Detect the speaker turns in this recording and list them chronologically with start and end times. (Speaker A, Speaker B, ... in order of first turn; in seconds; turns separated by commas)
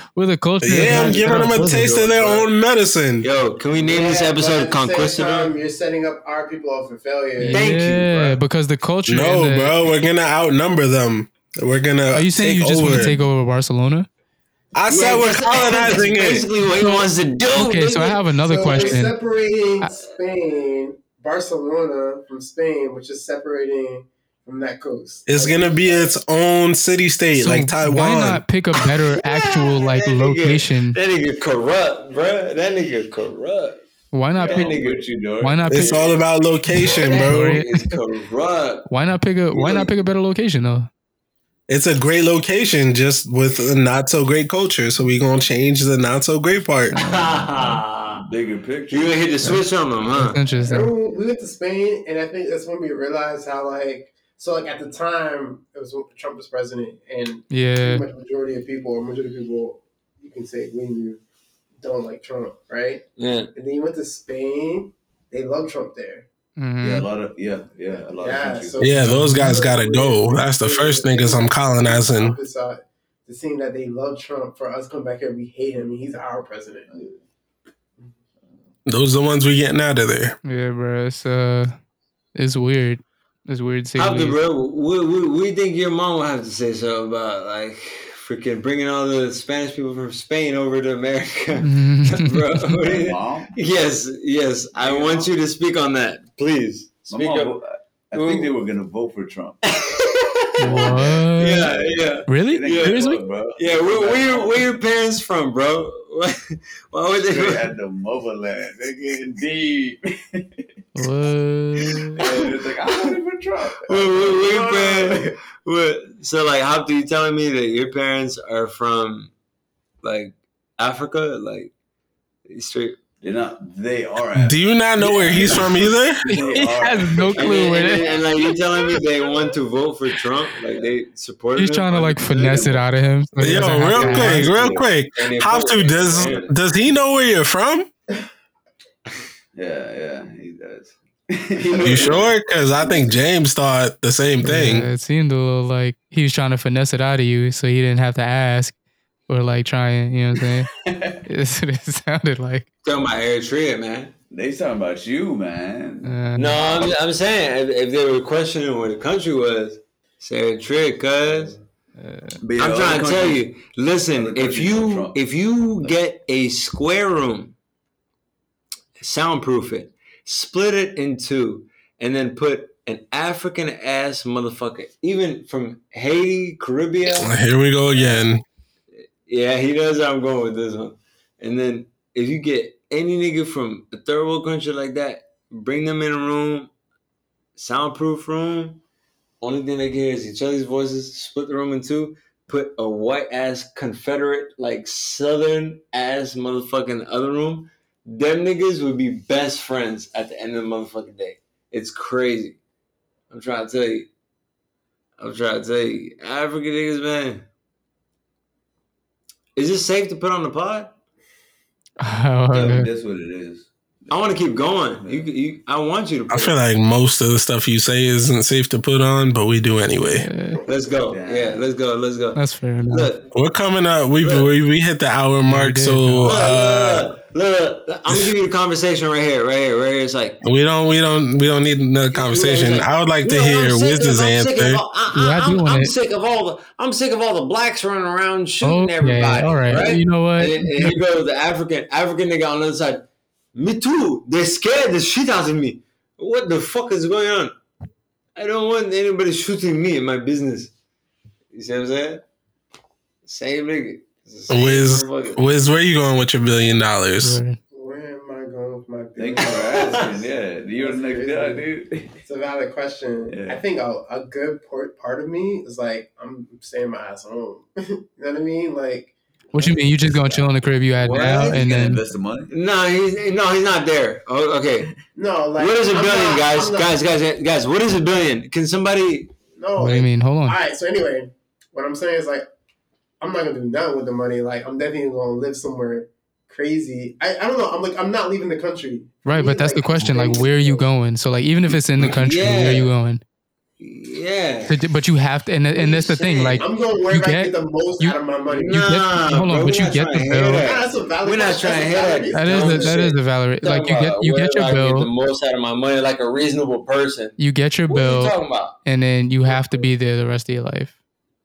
Speaker A: 0.1-1.9, Speaker B: 0.6-3.3, Speaker C: 0.8-2.5, Speaker C: 3.2-5.5, Speaker D: 3.7-7.7, Speaker A: 7.4-9.8, Speaker C: 7.5-8.4, Speaker B: 9.1-13.2, Speaker A: 12.1-14.1, Speaker B: 14.7-16.5, Speaker C: 14.9-19.0, Speaker A: 16.8-19.2, Speaker D: 18.4-26.1, Speaker B: 25.3-28.4, Speaker A: 27.4-31.0, Speaker C: 29.1-33.8, Speaker A: 34.1-34.8, Speaker E: 34.3-36.1, Speaker C: 34.4-35.0, Speaker A: 35.4-36.0, Speaker B: 35.7-37.6, Speaker A: 36.8-38.0, Speaker C: 36.8-38.9, Speaker A: 38.9-40.9, Speaker B: 41.7-47.0, Speaker A: 46.9-47.8, Speaker C: 47.0-48.2, Speaker E: 48.1-49.6, Speaker C: 48.9-50.4, Speaker A: 50.1-50.9, Speaker D: 50.6-61.2, Speaker A: 57.5-58.0, Speaker D: 61.8-63.0, Speaker C: 63.2-63.5, Speaker D: 63.5-66.2, Speaker A: 66.6-67.1, Speaker E: 66.8-68.9, Speaker D: 68.1-76.9, Speaker B: 68.8-72.4, Speaker A: 69.0-69.6, Speaker E: 76.9-77.2, Speaker B: 78.9-80.4, Speaker A: 80.4-81.7, Speaker A: 82.3-84.4, Speaker C: 84.0-97.6, Speaker A: 91.6-92.5, Speaker E: 92.6-93.6, Speaker E: 94.7-95.3, Speaker E: 97.1-99.6, Speaker C: 98.1-98.5, Speaker C: 99.6-107.7, Speaker A: 100.6-101.7, Speaker E: 100.7-104.7, Speaker A: 102.3-103.2, Speaker E: 107.2-110.7, Speaker A: 110.9-112.2, Speaker E: 111.8-115.3, Speaker C: 112.2-113.2, Speaker C: 113.8-119.3, Speaker C: 120.0-121.7, Speaker C: 122.5-123.0, Speaker E: 123.2-127.5, Speaker B: 124.4-126.2, Speaker A: 126.3-128.1, Speaker C: 127.3-132.7, Speaker E: 130.6-130.9, Speaker A: 131.6-134.5, Speaker E: 132.1-132.8, Speaker B: 133.4-137.9, Speaker C: 133.7-136.5, Speaker E: 139.5-142.3, Speaker D: 141.6-143.1, Speaker B: 141.8-144.9, Speaker A: 144.4-148.7, Speaker A: 149.3-150.7, Speaker E: 150.4-151.2, Speaker A: 151.2-152.7, Speaker C: 152.8-154.1, Speaker E: 154.3-156.9, Speaker A: 156.0-156.6, Speaker C: 156.3-161.5, Speaker E: 161.2-161.6, Speaker A: 162.0-162.4, Speaker E: 162.4-163.4, Speaker C: 162.6-167.5, Speaker E: 164.1-165.2, Speaker C: 169.0-177.3, Speaker B: 177.1-178.4, Speaker C: 177.9-178.2, Speaker C: 179.2-186.7, Speaker C: 187.6-188.8, Speaker C: 189.4-202.6, Speaker C: 203.3-204.1, Speaker C: 205.2-207.4, Speaker C: 209.6-210.9, Speaker A: 212.0-212.9, Speaker E: 212.5-215.3, Speaker C: 214.1-216.6, Speaker B: 216.3-220.2, Speaker A: 220.2-220.6, Speaker C: 220.7-223.3, Speaker E: 221.0-221.6, Speaker A: 222.3-223.1, Speaker B: 223.3-227.1, Speaker C: 224.2-224.5, Speaker A: 225.4-226.3, Speaker C: 226.2-230.4, Speaker B: 230.4-234.8, Speaker C: 232.1-247.5, Speaker A: 235.1-235.9, Speaker A: 238.6-240.9, Speaker C: 248.3-250.7, Speaker C: 251.5-252.2, Speaker C: 253.2-255.5, Speaker B: 254.5-257.4, Speaker A: 257.2-257.6, Speaker D: 257.7-261.7, Speaker E: 259.2-262.2, Speaker C: 259.4-260.1, Speaker D: 262.2-269.8, Speaker E: 263.3-263.6, Speaker A: 269.5-272.0, Speaker E: 270.1-270.5, Speaker C: 271.0-271.6, Speaker E: 271.1-272.5, Speaker C: 272.5-274.9, Speaker D: 275.1-277.0, Speaker C: 275.6-279.3, Speaker D: 279.6-282.4, Speaker A: 279.8-280.6, Speaker D: 283.2-290.9, Speaker A: 289.2-293.2, Speaker C: 292.0-292.9, Speaker C: 293.8-294.8, Speaker A: 294.7-298.2, Speaker C: 295.8-296.7, Speaker D: 296.6-298.8, Speaker C: 298.5-307.4, Speaker A: 298.7-300.6, Speaker D: 300.6-303.1, Speaker A: 302.3-305.1, Speaker A: 307.4-310.9, Speaker C: 307.9-308.8